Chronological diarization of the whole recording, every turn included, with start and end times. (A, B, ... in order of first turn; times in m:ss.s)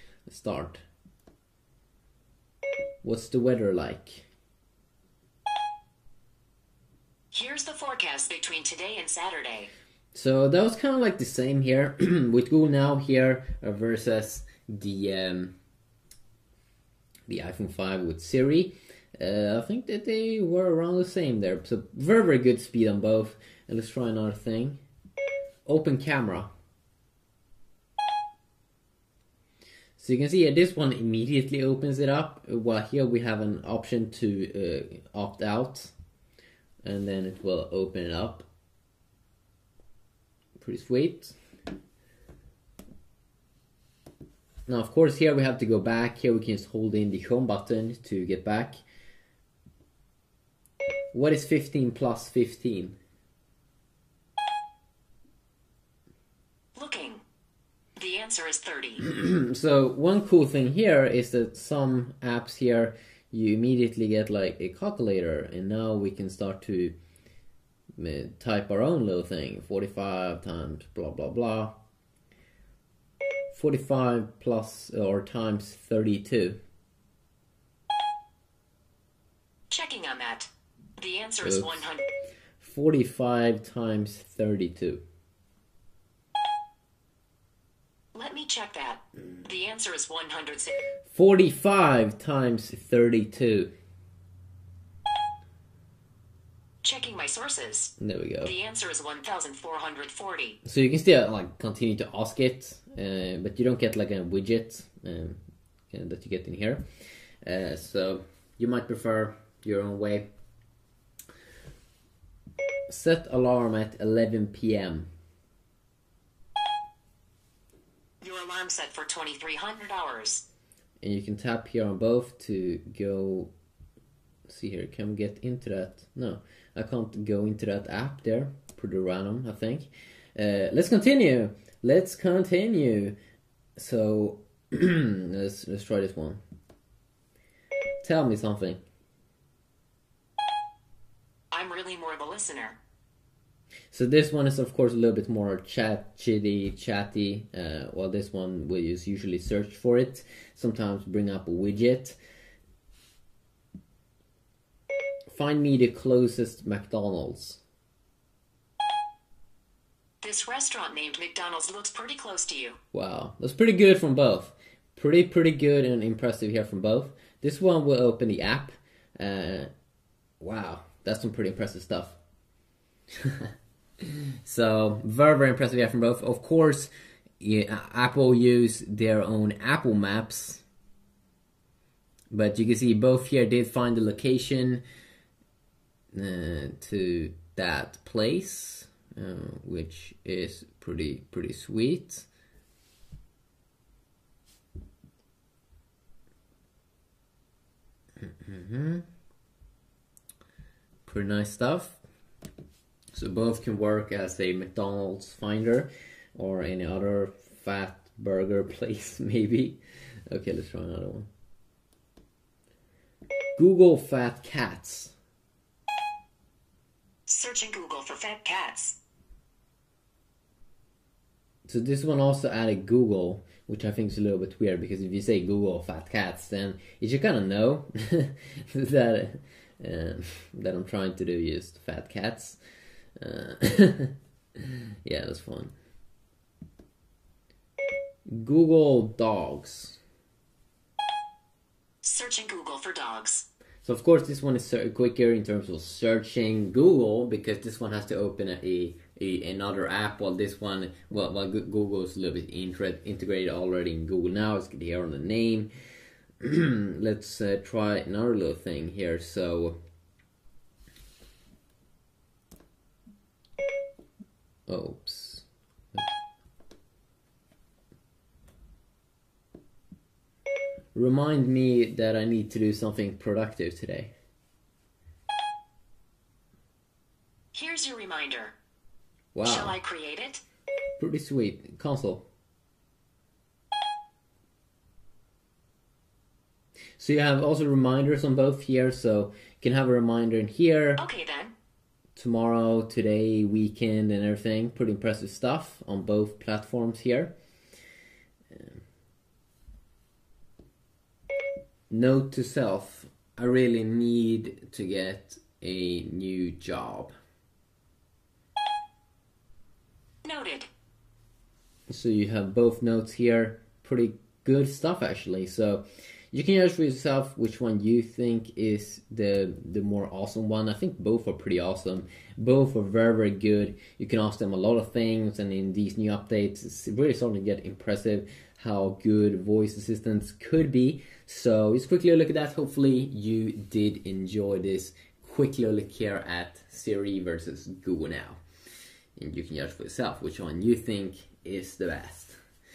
0:00.3-0:00.8 A
0:03.0-0:04.3 A
0:07.3-0:09.7 B
0:10.1-0:15.5 A
0:17.3-0:24.8 A
0:25.7-0:26.5 A
0:30.0-0:35.9 A
0:36.8-0:38.5 A
0:40.6-0:41.4 A
0:44.7-0:48.8 A
0:51.1-0:53.0 A
0:56.8-0:57.2 B
0:58.0-0:59.0 B
0:59.0-1:07.0 A
1:08.0-1:11.8 A
1:13.5-1:16.6 A
1:19.7-1:22.1 B
1:21.4-1:21.9 A
1:22.6-1:25.0 A
1:28.2-1:30.8 B
1:31.1-1:33.7 A
1:36.8-1:37.9 B
1:38.0-1:38.5 A
1:38.4-1:40.6 B
1:40.6-1:46.8 A
1:47.4-1:50.3 A
1:52.9-1:55.1 A
1:58.2-2:00.4 B
2:01.0-2:03.5 A
2:04.5-2:13.2 A
2:13.8-2:16.4 A
2:18.0-2:18.8 A
2:21.5-2:22.8 B
2:23.9-2:32.2 A
2:35.3-2:37.6 A
2:40.2-2:42.8 B
2:42.9-2:49.7 A
2:50.4-2:52.2 A
2:54.4-3:00.6 A
3:02.3-3:04.8 A
3:06.1-3:12.3 A
3:18.3-3:19.1 A
3:21.1-3:22.0 A
3:23.1-3:29.8 A
3:30.3-3:31.3 A
3:33.6-3:35.2 A
3:37.3-3:39.0 B
3:41.7-3:52.6 A
3:53.2-3:54.1 A
3:55.0-3:55.7 A
3:58.3-4:00.0 A
4:02.0-4:03.4 B
4:03.8-4:15.7 A
4:16.4-4:19.8 A
4:24.7-4:26.1 A
4:31.0-4:34.1 A
4:37.5-4:38.5 B
4:39.4-4:39.8 A
4:39.4-4:40.4 B
4:41.0-4:42.2 A
4:47.0-4:51.0 A
4:51.0-4:51.5 B
4:52.2-4:57.3 A
5:01.9-5:07.1 A
5:10.2-5:10.7 B
5:11.9-5:38.4 A
5:39.2-5:42.4 A